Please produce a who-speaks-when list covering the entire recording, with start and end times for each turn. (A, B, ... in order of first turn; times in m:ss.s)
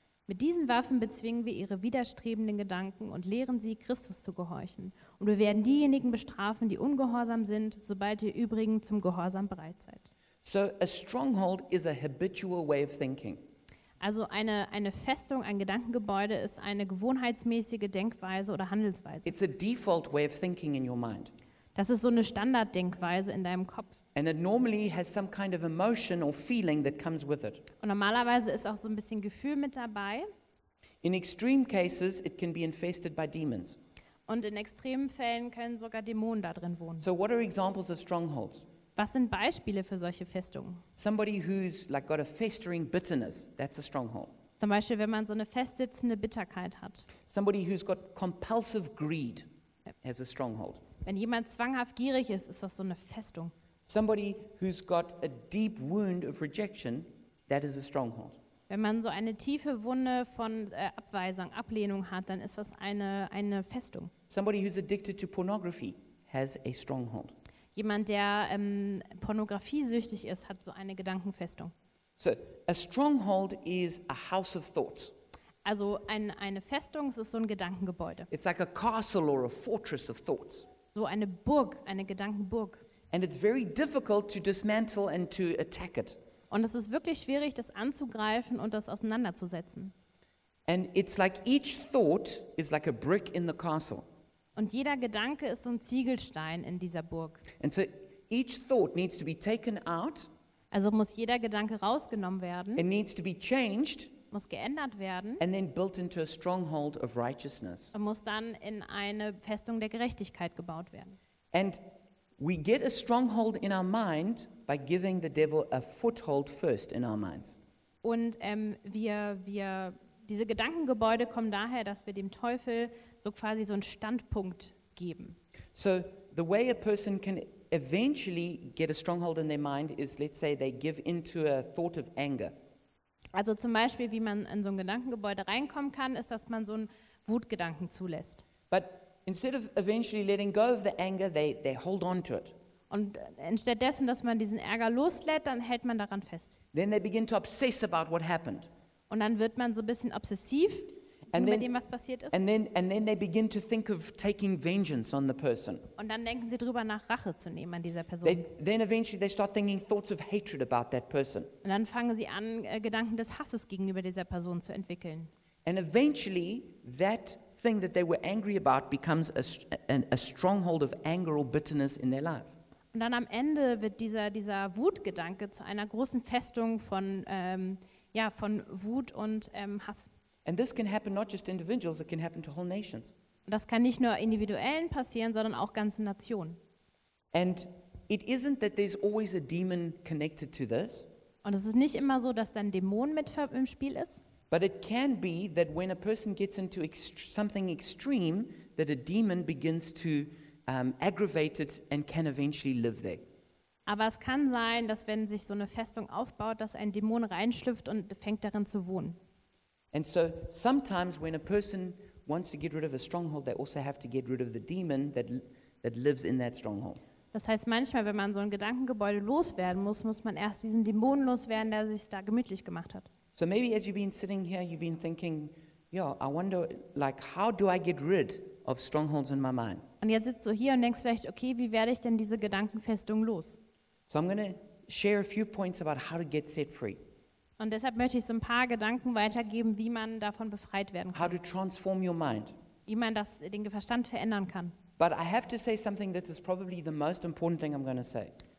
0:00.3-0:10.1 A
0:10.4-0:13.4 B
0:14.0-0:19.3 A
0:19.3-0:21.3 B
0:21.8-0:23.9 A
0:24.2-0:27.6 B
0:27.8-0:30.3 A
0:31.0-0:33.8 B
0:34.3-0:37.1 A
0:37.0-0:38.7 B
0:39.0-0:40.8 A
0:41.0-0:44.3 B
0:44.6-0:47.1 A
0:47.3-0:49.5 B
0:50.0-0:50.8 B
0:51.0-0:53.5 A
0:53.9-0:58.4 B
0:58.7-1:04.1 A
1:04.3-1:07.4 B
1:07.8-1:11.7 A
1:12.2-1:15.1 B
1:15.6-1:18.3 A
1:18.3-1:20.7 B
1:20.9-1:22.8 A
1:23.1-1:26.2 B
1:26.5-1:29.9 A
1:30.7-1:34.1 B
1:34.6-1:37.4 A
1:37.6-1:40.3 B
1:40.7-1:42.8 A
1:42.8-1:44.1 B
1:44.3-1:45.4 A
1:45.4-1:48.0 B
1:47.9-1:51.2 A
1:51.5-1:51.8 B
1:52.4-1:57.6 B
1:58.0-2:05.4 A
2:05.7-2:12.6 B
2:13.4-2:18.4 A
2:18.7-2:22.6 B
2:22.9-2:26.6 A
2:26.7-2:28.7 B
2:29.1-2:32.4 A
2:31.3-2:31.7 B
2:32.3-2:35.9 B
2:36.0-2:38.5 A
2:38.2-2:41.5 B
2:41.6-2:45.3 A
2:45.7-2:52.5 B
2:52.9-3:00.1 A
3:00.4-3:03.1 B
3:03.5-3:06.6 A
3:07.3-3:11.1 B
3:11.4-3:14.2 A
3:14.5-3:23.2 B
3:23.9-3:29.2 A
3:29.9-3:37.0 B
3:37.3-3:43.1 A
3:43.3-3:49.8 B
3:50.0-3:53.6 A
3:54.1-3:57.0 B
3:57.6-4:01.4 A
4:01.1-4:02.6 B
4:02.9-4:04.8 A
4:05.0-4:08.4 B